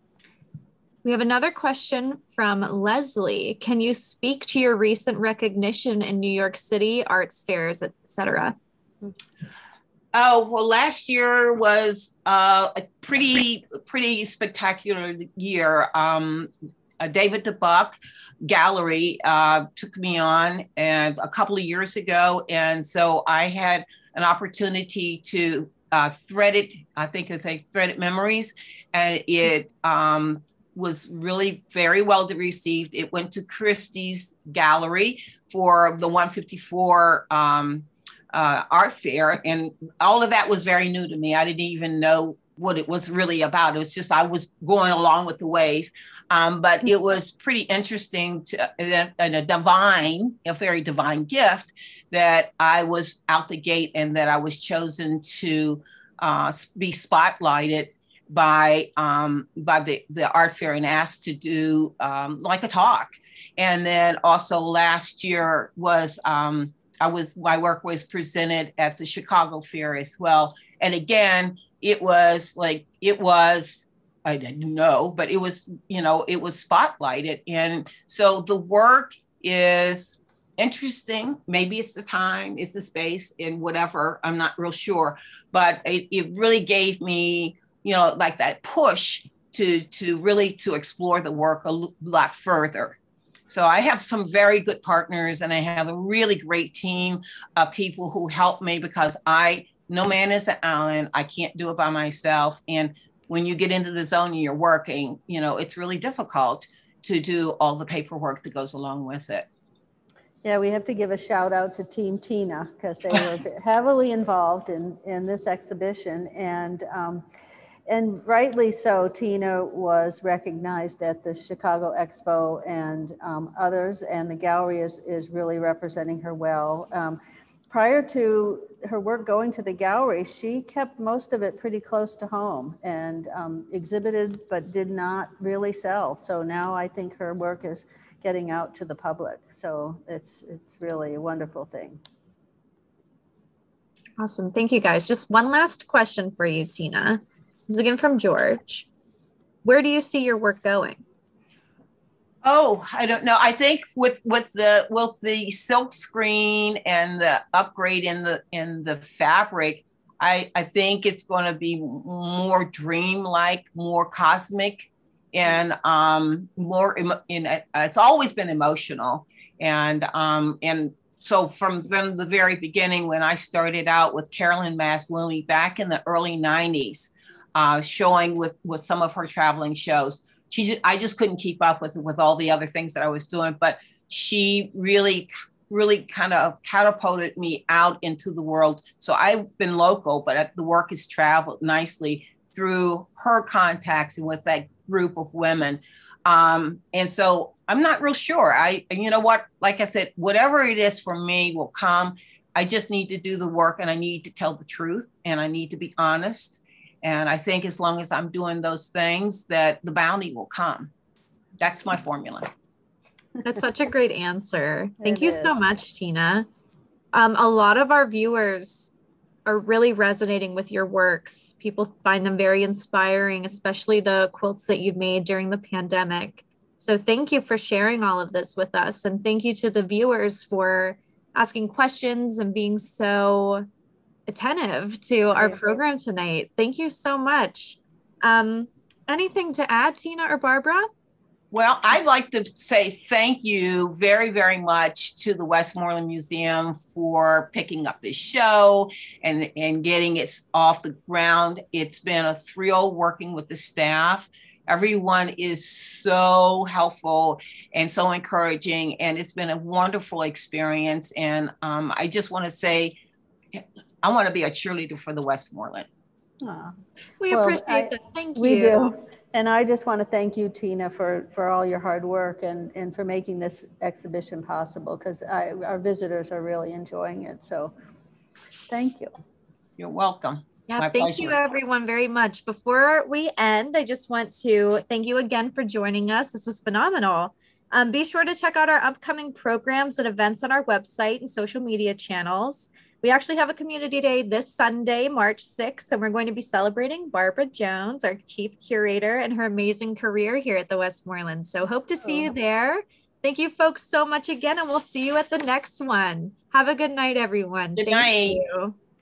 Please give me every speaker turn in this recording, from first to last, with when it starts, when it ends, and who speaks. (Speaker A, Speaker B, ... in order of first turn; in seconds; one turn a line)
Speaker A: 1.0-8.6
Speaker B: 10.1-109.5
Speaker C: 110.4-117.2
Speaker C: 117.9-127.2
Speaker C: 127.7-142.0
Speaker A: 144.2-148.9
Speaker A: 149.6-151.0
Speaker B: 152.4-210.9
Speaker B: 211.6-212.5
Speaker A: 213.4-216.5
Speaker C: 215.0-215.6
Speaker A: 217.1-218.9
Speaker A: 219.4-233.7
Speaker A: 234.3-240.9
Speaker C: 235.4-235.8
Speaker B: 241.5-263.0
Speaker B: 263.5-265.9
Speaker C: 266.4-266.7
Speaker A: 267.2-268.9
Speaker C: 267.3-277.7
Speaker C: 278.7-279.1
Speaker B: 279.8-281.4
Speaker A: 280.7-308.8
Speaker C: 302.0-302.3
Speaker B: 307.8-308.4